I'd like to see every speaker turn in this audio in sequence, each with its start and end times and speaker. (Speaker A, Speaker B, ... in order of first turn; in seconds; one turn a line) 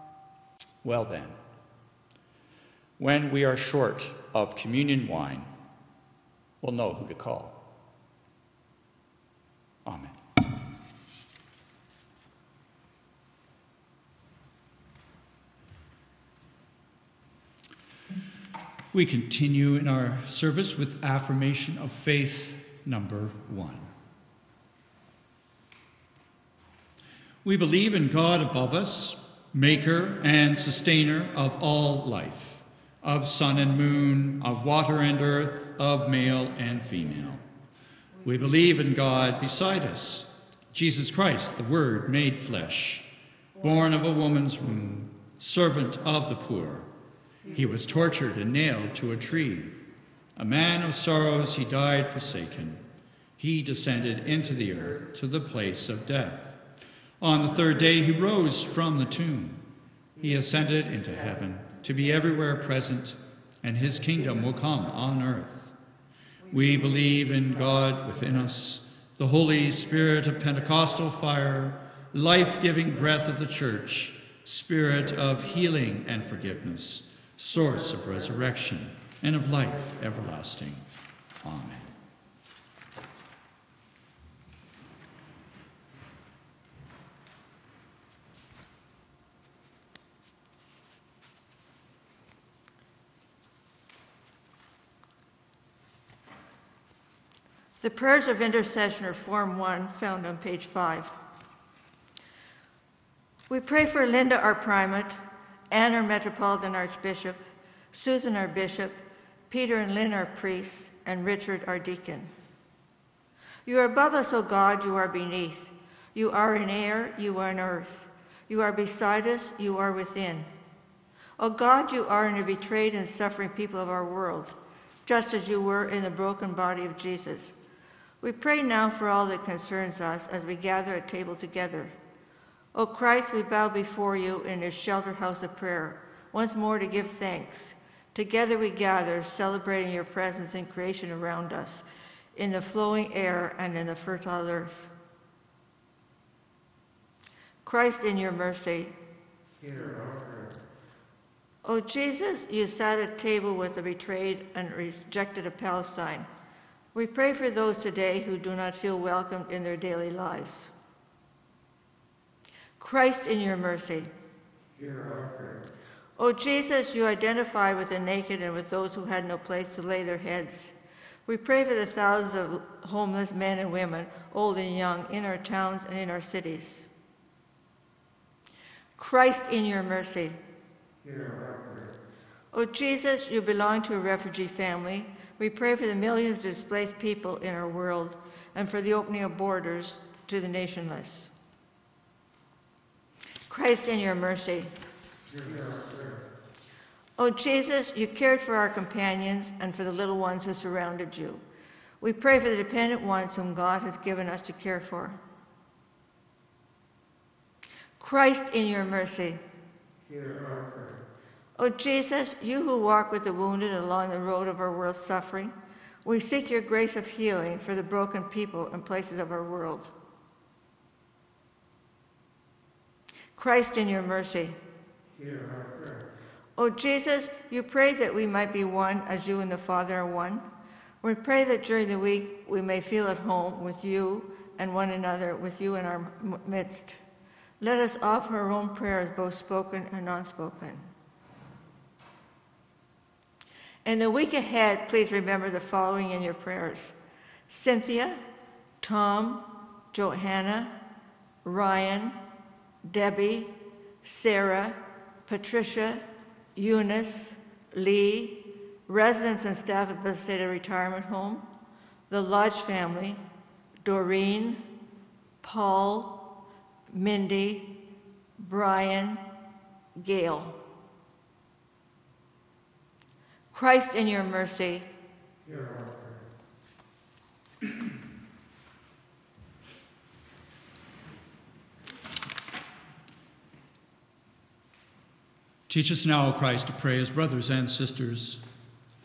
Speaker A: 0.8-1.4
Speaker A: 3.0-5.5
Speaker A: 6.6-7.6
Speaker A: 9.8-10.2
Speaker A: 18.9-23.9
Speaker A: 27.4-37.4
Speaker A: 38.2-43.1
Speaker A: 43.6-46.9
Speaker A: 47.5-49.8
Speaker A: 50.4-52.8
Speaker A: 53.4-56.6
Speaker A: 57.2-59.6
Speaker A: 60.2-65.7
Speaker A: 66.5-80.8
Speaker A: 81.4-81.9
Speaker B: 97.8-101.1
Speaker B: 103.5-105.2
Speaker B: 105.7-107.4
Speaker B: 107.9-112.3
Speaker B: 113.6-120.5
Speaker B: 121.4-124.5
Speaker B: 125.0-127.5
Speaker B: 128.2-131.9
Speaker B: 132.7-144.9
Speaker B: 147.6-148.9
Speaker C: 149.6-150.3
Speaker B: 151.6-156.3
Speaker B: 156.9-160.7
Speaker B: 162.8-164.1
Speaker C: 164.8-165.6
Speaker B: 166.2-170.7
Speaker B: 171.2-176.9
Speaker B: 179.0-180.4
Speaker C: 181.0-181.8
Speaker B: 182.5-191.3
Speaker B: 193.5-194.7
Speaker C: 195.3-196.1
Speaker B: 197.2-201.4
Speaker B: 202.0-205.2
Speaker B: 208.0-209.4
Speaker C: 210.1-210.9
Speaker B: 211.6-215.5
Speaker B: 216.0-219.9
Speaker B: 223.3-224.6
Speaker C: 225.2-225.8
Speaker B: 226.6-230.4
Speaker B: 231.0-237.0
Speaker B: 237.6-240.9
Speaker B: 243.8-246.9
Speaker B: 247.5-248.2
Speaker B: 248.8-250.7
Speaker B: 251.4-252.2
Speaker B: 252.8-256.0
Speaker B: 256.6-261.4
Speaker B: 262.1-263.2
Speaker B: 263.8-264.6
Speaker B: 265.4-266.2
Speaker B: 266.9-267.7
Speaker B: 268.4-269.2
Speaker B: 269.9-270.6
Speaker B: 273.5-274.9
Speaker C: 275.4-275.9
Speaker A: 285.7-288.4